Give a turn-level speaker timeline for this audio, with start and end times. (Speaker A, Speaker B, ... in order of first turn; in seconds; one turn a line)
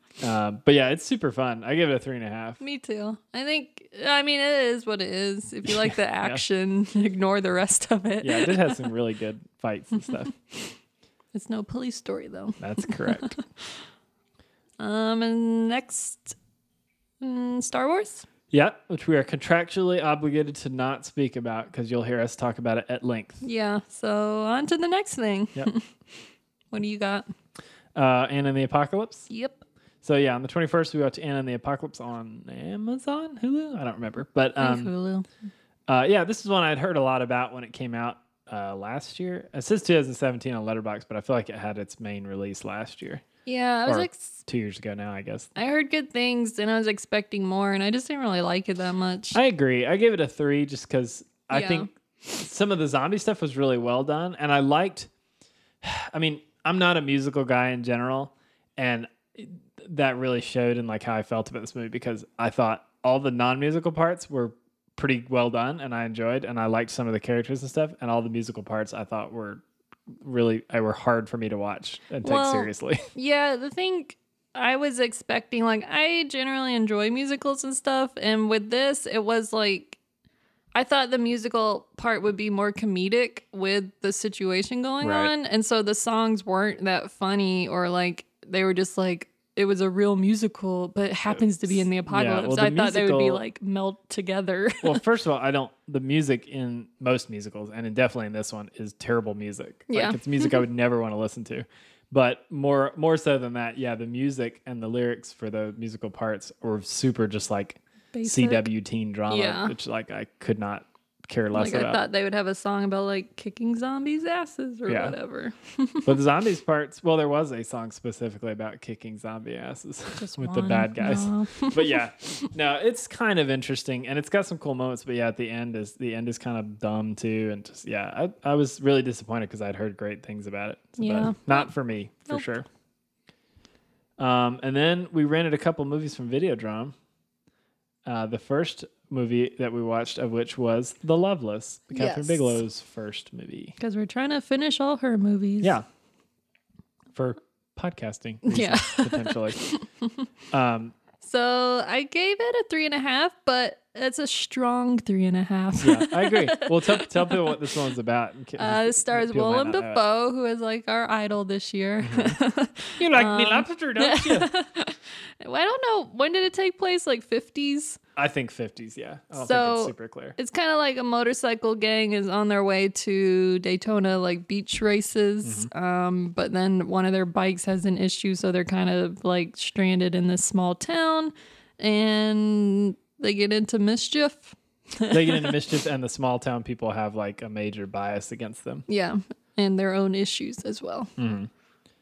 Speaker A: 0.2-2.6
Speaker B: 2.6-8.8
Speaker A: 5.7-6.4
Speaker A: 8.2-10.3
Speaker B: 11.3-13.4
Speaker A: 12.6-13.3
Speaker B: 14.8-16.4
Speaker B: 17.2-18.3
Speaker A: 18.5-23.4
Speaker B: 23.4-25.9
Speaker B: 26.7-27.3
Speaker A: 27.9-29.3
Speaker B: 29.3-29.6
Speaker A: 30.0-34.9
Speaker B: 34.6-35.3
Speaker A: 35.9-43.2
Speaker B: 43.5-44.4
Speaker A: 43.9-45.5
Speaker B: 45.5-49.4
Speaker A: 49.3-55.1
Speaker B: 51.5-51.9
Speaker A: 55.8-69.6
Speaker A: 70.2-73.0
Speaker B: 72.2-80.0
Speaker B: 80.7-95.0
Speaker A: 85.0-85.3
Speaker A: 91.3-93.4
Speaker A: 94.8-112.0
Speaker B: 99.9-100.6
Speaker B: 108.1-108.7
Speaker B: 109.3-109.7
Speaker B: 111.5-116.1
Speaker A: 114.9-115.2
Speaker A: 116.0-132.6
Speaker B: 120.2-122.5
Speaker B: 131.0-131.7
Speaker A: 134.2-136.9
Speaker A: 138.1-143.7
Speaker B: 141.9-142.6
Speaker B: 143.8-145.8
Speaker A: 147.1-149.6
Speaker B: 148.4-150.1
Speaker A: 150.5-150.9
Speaker B: 151.2-157.7
Speaker A: 155.8-160.0
Speaker B: 158.6-168.0
Speaker A: 162.0-162.4
Speaker A: 163.0-164.5
Speaker A: 168.2-170.3
Speaker B: 169.4-185.7
Speaker A: 175.4-175.7
Speaker A: 185.1-188.8
Speaker B: 188.9-191.1
Speaker A: 191.2-191.5